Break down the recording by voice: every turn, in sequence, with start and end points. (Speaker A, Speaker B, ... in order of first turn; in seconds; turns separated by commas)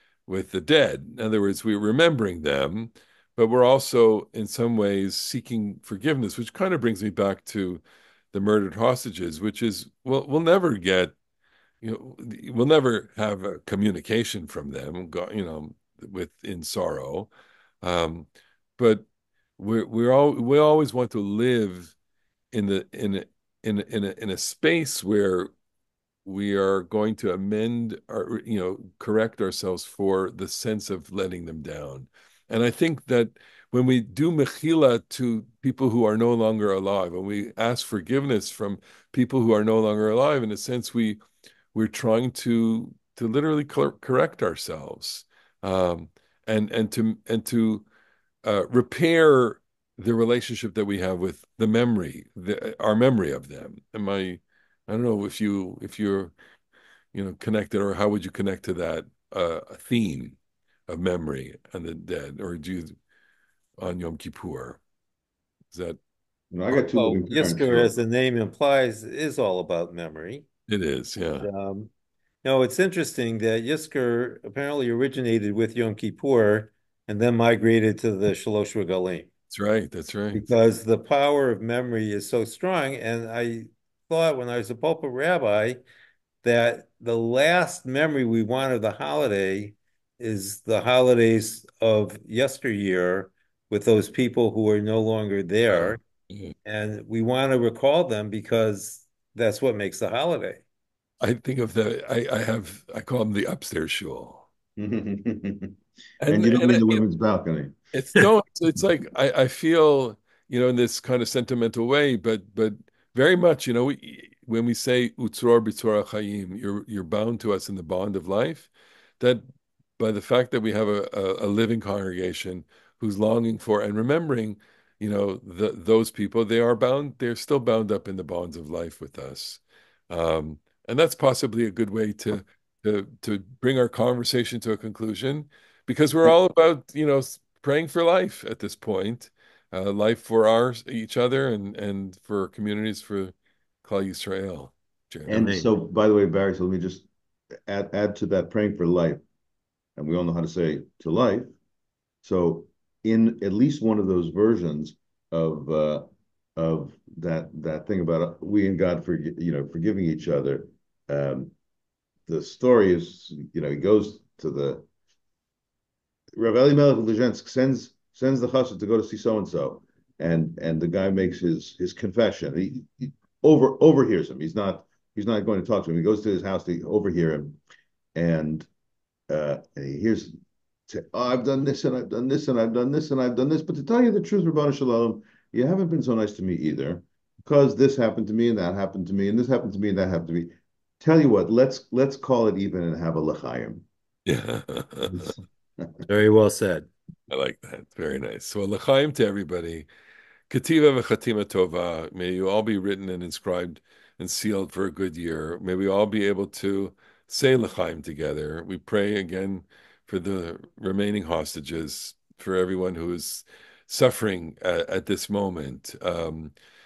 Speaker A: 0.3-11.1, Speaker A: 11.8-17.3, Speaker A: 17.8-19.0, Speaker A: 19.6-21.9, Speaker A: 22.5-25.5, Speaker A: 26.2-41.2, Speaker A: 41.7-47.8, Speaker A: 48.4-56.3, Speaker A: 57.1-60.4, Speaker A: 60.9-62.9, Speaker A: 63.8-64.8, Speaker A: 65.7-66.0, Speaker B: 66.5-67.9, Speaker C: 66.7-70.5, Speaker A: 70.7-71.5, Speaker C: 71.4-71.9, Speaker C: 72.4-79.3, Speaker A: 79.5-80.5, Speaker C: 80.3-85.8, Speaker C: 86.4-96.0, Speaker A: 95.7-96.5, Speaker C: 96.6-100.6, Speaker A: 101.2-104.5, Speaker B: 104.8-108.2, Speaker A: 106.2-107.0, Speaker A: 107.9-119.4, Speaker A: 120.0-145.4, Speaker B: 145.3-147.1, Speaker C: 145.3-145.7, Speaker B: 147.7-149.2, Speaker B: 149.9-151.5, Speaker B: 152.2-161.5, Speaker B: 162.2-164.8, Speaker B: 166.3-177.6, Speaker B: 178.1-178.7, Speaker B: 179.3-180.3, Speaker B: 180.9-193.8, Speaker A: 194.2-195.3, Speaker B: 195.1-196.0, Speaker C: 196.0-196.9, Speaker A: 197.3-199.8, Speaker A: 200.5-216.5